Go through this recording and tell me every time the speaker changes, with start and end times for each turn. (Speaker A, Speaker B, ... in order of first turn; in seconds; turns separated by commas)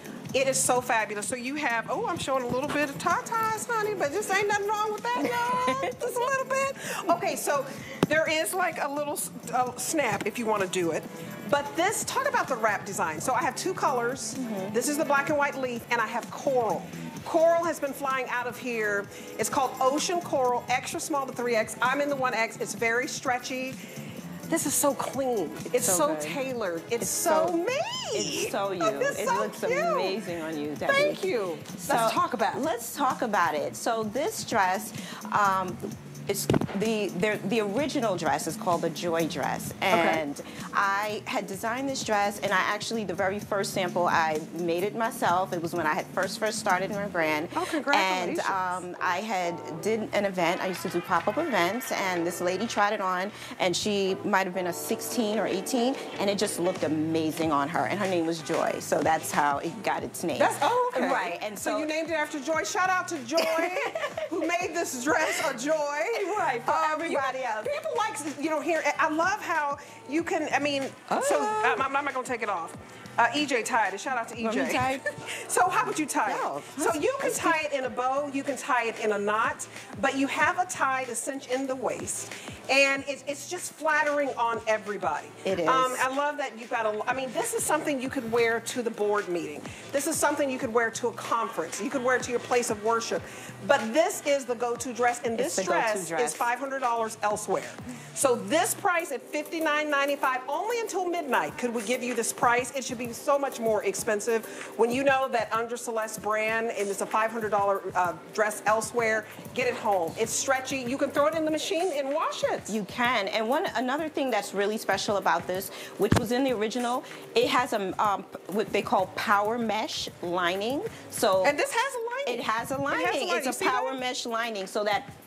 Speaker A: 0.3-23.8, Speaker B: 5.2-6.3, Speaker B: 14.4-14.8, Speaker A: 24.5-30.2, Speaker B: 25.8-26.4, Speaker B: 27.0-27.6, Speaker B: 28.1-61.9, Speaker A: 30.9-32.7, Speaker A: 39.9-40.2, Speaker A: 47.5-48.8, Speaker A: 60.4-112.8, Speaker B: 63.4-64.3, Speaker B: 66.1-67.7, Speaker B: 71.1-71.9, Speaker B: 74.4-75.0, Speaker B: 76.2-77.6, Speaker B: 85.4-86.0, Speaker B: 95.4-96.5, Speaker B: 112.7-121.6, Speaker A: 121.4-124.0, Speaker B: 122.2-125.1